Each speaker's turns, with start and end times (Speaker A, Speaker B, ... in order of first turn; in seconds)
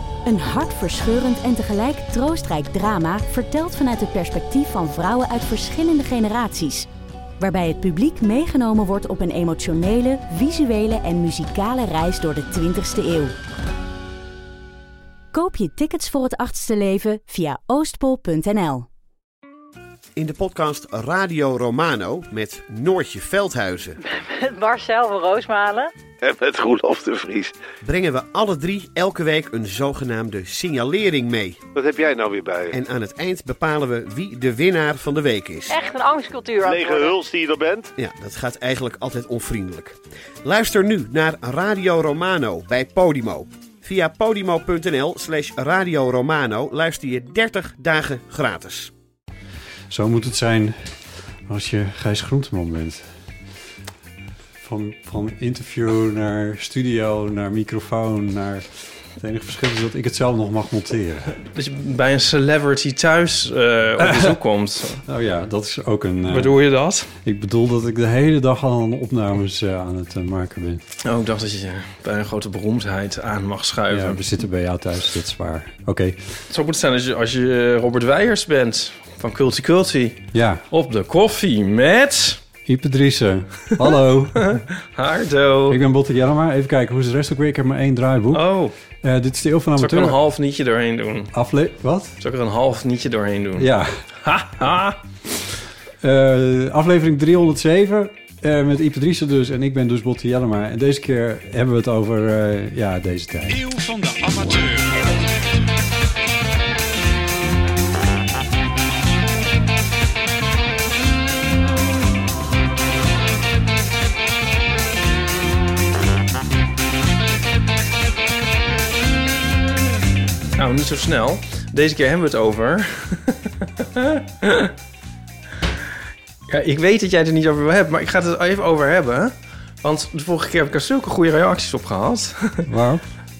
Speaker A: 0.2-6.9, 7.4-13.3, 15.3-18.9
Speaker B: 20.2-24.0, 27.8-31.6, 32.7-35.8, 38.0-48.9
Speaker C: 24.0-25.9, 35.7-37.2
Speaker D: 26.2-27.6, 31.8-32.7, 36.6-37.9
Speaker E: 49.9-53.0, 54.6-61.4, 64.0-64.4, 65.0-66.6, 67.2-70.8, 73.9-76.4, 80.3-80.6, 82.7-84.5, 85.7-88.5, 89.0-90.2, 91.3-92.2, 93.6-94.0, 96.0-103.8, 104.4-104.7, 132.7-133.1
Speaker F: 61.5-65.0, 66.3-67.2, 71.0-74.2, 76.5-82.4, 84.4-85.8, 88.3-88.7, 89.8-91.3, 92.2-93.7, 94.2-95.0, 120.6-124.7, 126.5-132.7